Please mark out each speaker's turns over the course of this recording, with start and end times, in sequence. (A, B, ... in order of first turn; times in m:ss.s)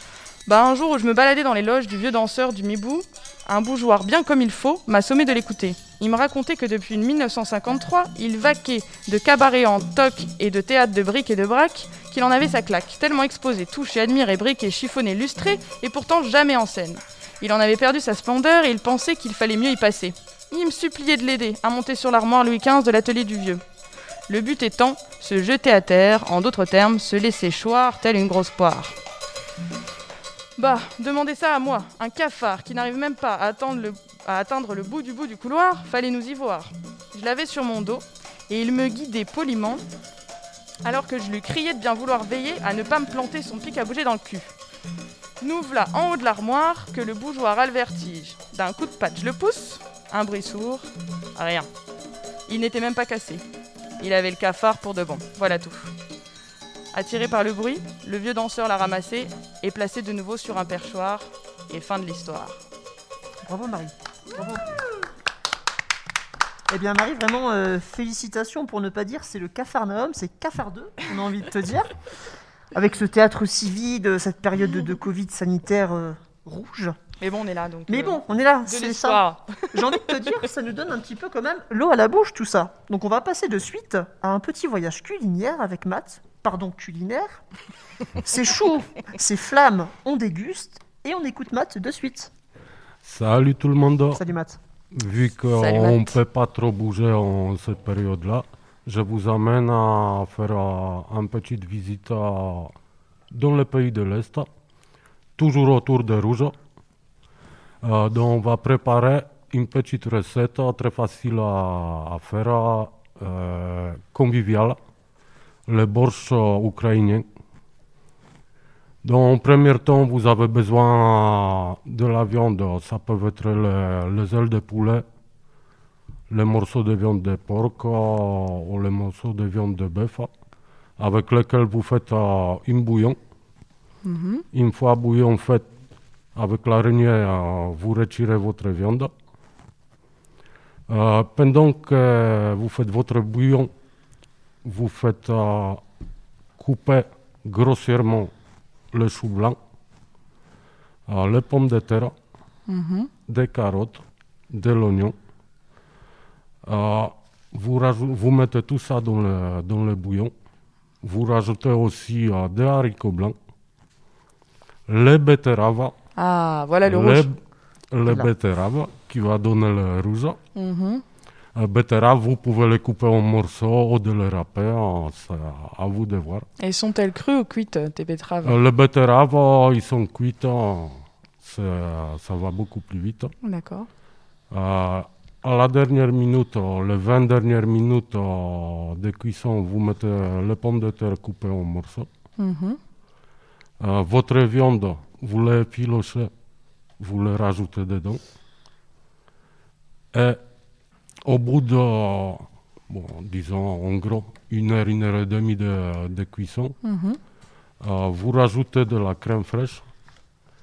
0:00.5-0:23.6 A
0:24.3-0:29.0 A
0:30.6-0:39.8 A
0:40.8-0:44.5 A
0:45.4-0:51.7 A
0:52.5-0:53.4 A
0:54.0-0:55.9 A
0:56.9-1:02.6 A
1:03.4-1:04.7 B
1:06.7-1:11.9 B
1:12.7-1:17.0 B
1:17.2-1:20.0 A
1:17.9-1:19.2 B
1:19.7-1:27.4 B
1:28.2-1:32.3 B
1:33.0-1:34.2 C
1:34.1-1:34.6 B
1:34.9-1:42.7 C
1:35.5-1:36.2 A
1:43.3-1:44.5 C
1:45.4-1:46.5 C
1:47.8-1:54.8 C
1:55.7-1:57.2 C
1:59.0-2:05.0 C
2:06.3-2:10.3 C
2:11.0-2:13.2 C
2:14.0-2:14.4 A
2:14.5-2:15.7 C
2:16.3-2:19.1 C
2:20.9-2:23.7 C
2:24.6-2:25.8 C
2:26.6-2:28.3 C
2:28.9-2:29.6 C
2:31.1-2:32.1 C
2:32.7-2:33.1 A
2:33.3-2:35.1 C
2:36.7-2:40.3 C
2:41.0-2:43.4 C
2:44.9-2:45.9 C
2:46.2-2:47.3 A
2:46.8-2:47.4 C
2:47.9-2:50.4 C
2:50.6-2:51.0 A
2:51.5-2:56.4 C
2:56.6-2:58.6 A
2:58.4-3:03.3 C
3:03.4-3:03.9 A
3:04.5-3:12.1 C
3:12.4-3:12.8 A
3:13.8-3:16.3 C
3:17.0-3:18.2 C
3:20.1-3:20.4 C
3:21.2-3:26.8 C
3:26.8-3:27.2 A
3:27.8-3:29.8 C